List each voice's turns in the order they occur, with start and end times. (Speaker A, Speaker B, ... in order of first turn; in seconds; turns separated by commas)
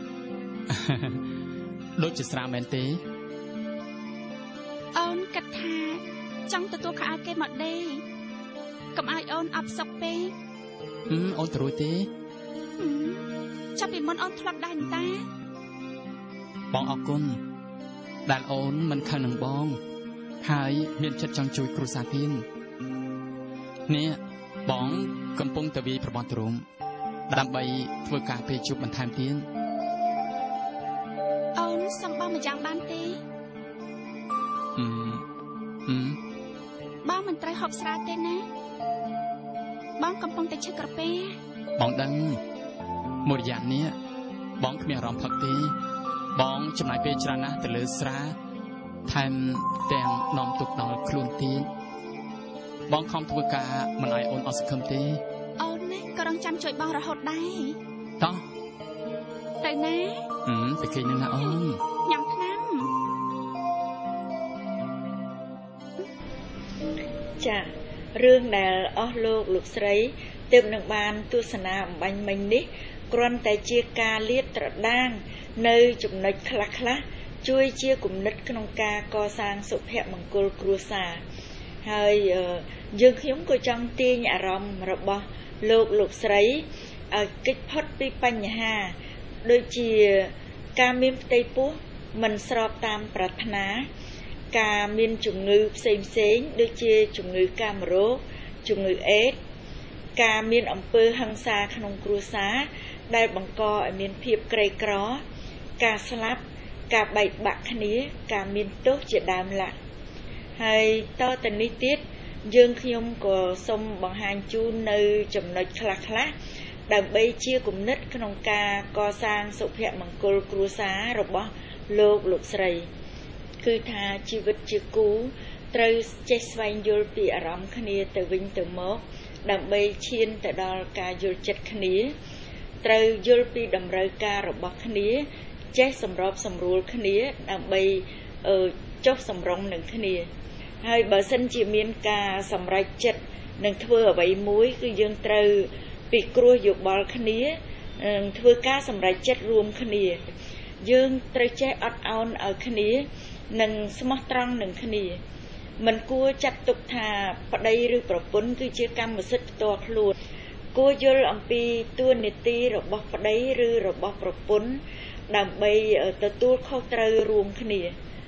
Speaker A: 0.7-1.2, Speaker A: 2.0-3.0, Speaker B: 5.0-8.0, Speaker B: 8.9-10.3, Speaker A: 11.1-12.1, Speaker B: 12.8-13.2, Speaker B: 13.8-15.3, Speaker A: 16.7-17.4, Speaker A: 18.3-19.8, Speaker A: 20.4-22.5, Speaker A: 23.9-26.6, Speaker A: 27.3-29.5, Speaker B: 31.6-33.2, Speaker A: 34.8-35.3, Speaker A: 35.9-36.2, Speaker B: 37.0-38.5, Speaker B: 40.0-41.4, Speaker A: 41.8-42.4, Speaker A: 43.2-44.0, Speaker A: 44.6-45.8, Speaker A: 46.4-48.4, Speaker A: 49.1-51.7, Speaker A: 52.9-55.2, Speaker B: 55.6-57.8, Speaker A: 58.2-58.4, Speaker B: 59.6-60.3, Speaker A: 60.5-61.8, Speaker B: 62.0-62.9, Speaker C: 67.4-81.2, Speaker C: 81.8-93.9, Speaker C: 94.5-99.4, Speaker C: 100.2-105.2, Speaker C: 105.8-109.7, Speaker C: 110.6-116.3, Speaker C: 116.9-122.9, Speaker C: 123.6-132.1, Speaker C: 132.8-140.3, Speaker C: 140.8-150.2, Speaker C: 150.8-155.2, Speaker C: 155.8-160.2, Speaker C: 160.7-167.9